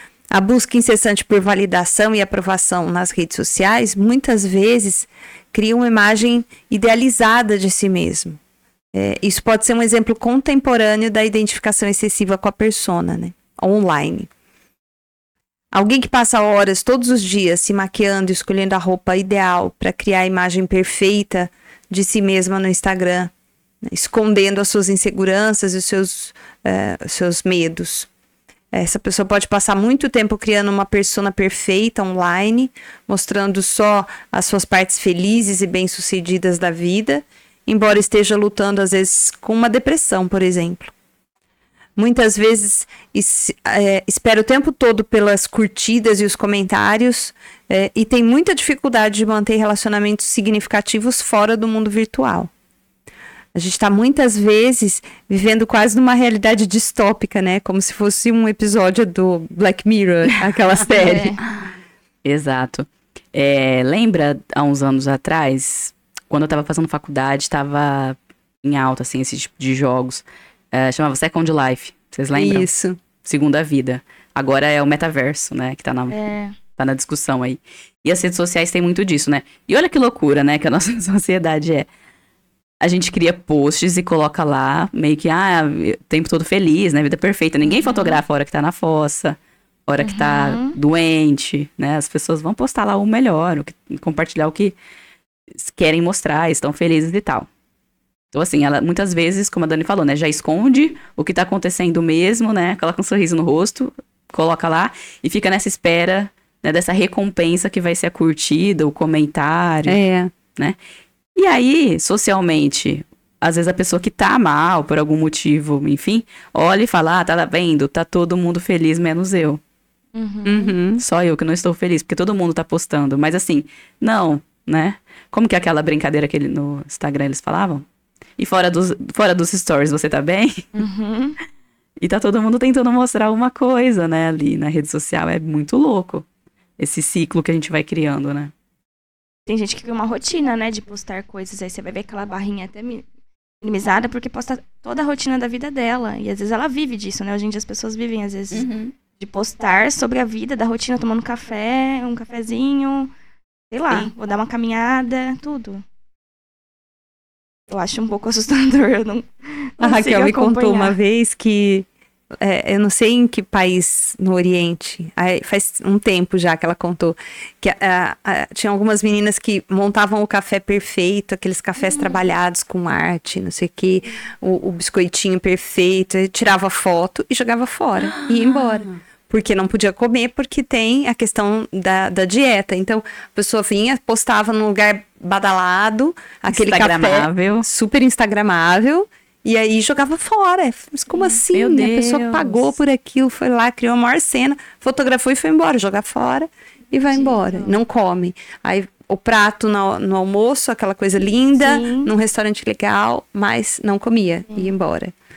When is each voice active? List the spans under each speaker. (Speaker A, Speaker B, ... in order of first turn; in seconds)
Speaker A: 0.3-8.4, 8.9-14.3, 15.7-23.3, 23.8-28.1, 28.7-40.9, 42.0-52.5, 53.5-61.3, 72.3-73.0, 109.8-110.3, 120.4-121.0, 159.8-161.9, 162.4-205.1
Speaker B: 60.9-61.4, 76.1-76.5, 87.7-88.2, 90.0-90.8, 120.1-120.7, 130.7-131.4, 139.5-143.1, 143.6-148.7, 149.2-153.1, 153.7-155.8, 157.7-161.0, 171.8-172.3, 191.1-191.4, 197.1-197.8, 201.5-202.1
Speaker C: 62.2-72.7, 73.2-76.2, 76.8-81.9, 82.8-94.8, 95.5-97.5, 98.3-110.0, 111.3-119.6, 121.0-127.8, 128.4-130.7, 132.0-136.2, 136.8-138.5, 148.5-148.9, 178.1-178.9, 186.5-187.7, 191.5-192.7